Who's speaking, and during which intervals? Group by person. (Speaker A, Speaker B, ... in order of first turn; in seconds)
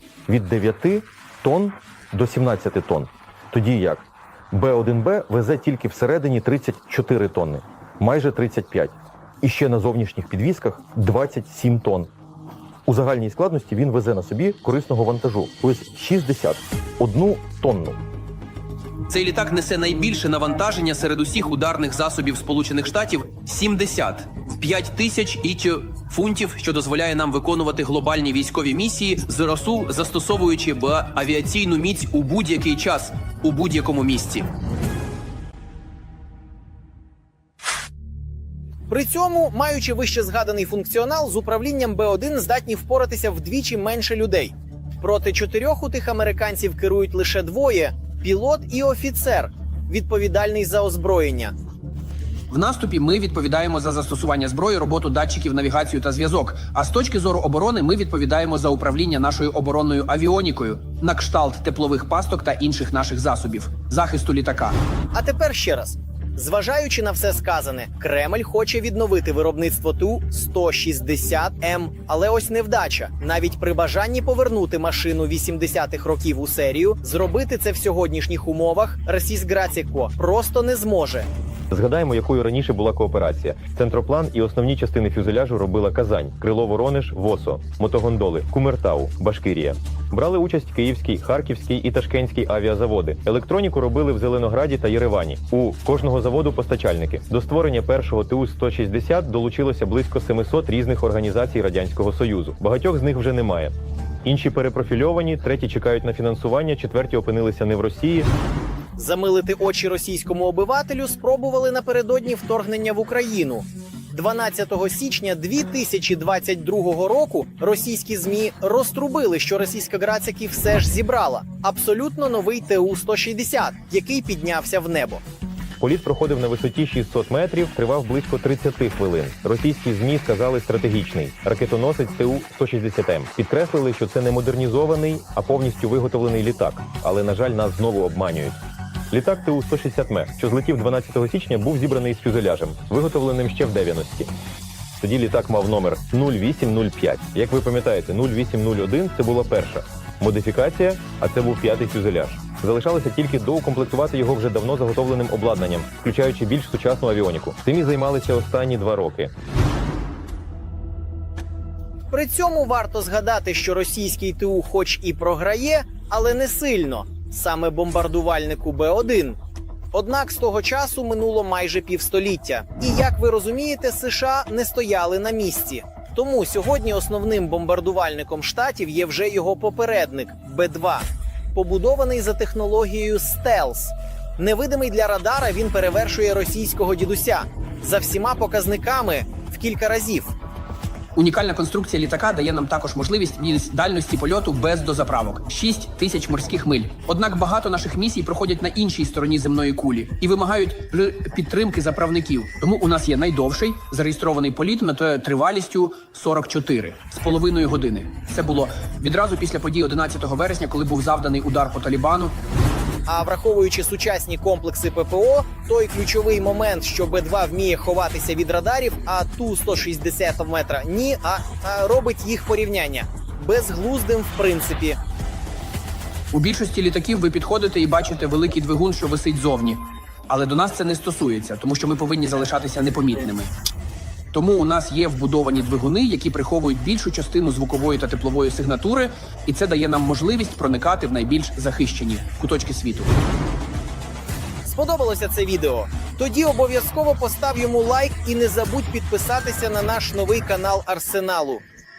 Speaker A: 0.3-12.1, 12.9-18.0, 81.7-108.3, 125.8-138.6, 139.1-144.3, 145.0-159.3
Speaker B: 19.1-34.5, 52.5-64.8, 191.2-212.3, 226.3-233.5, 234.3-243.1
Speaker C: 38.9-51.5, 65.1-81.3, 109.0-125.2, 162.1-169.4, 169.9-190.3, 213.1-225.0, 244.6-251.6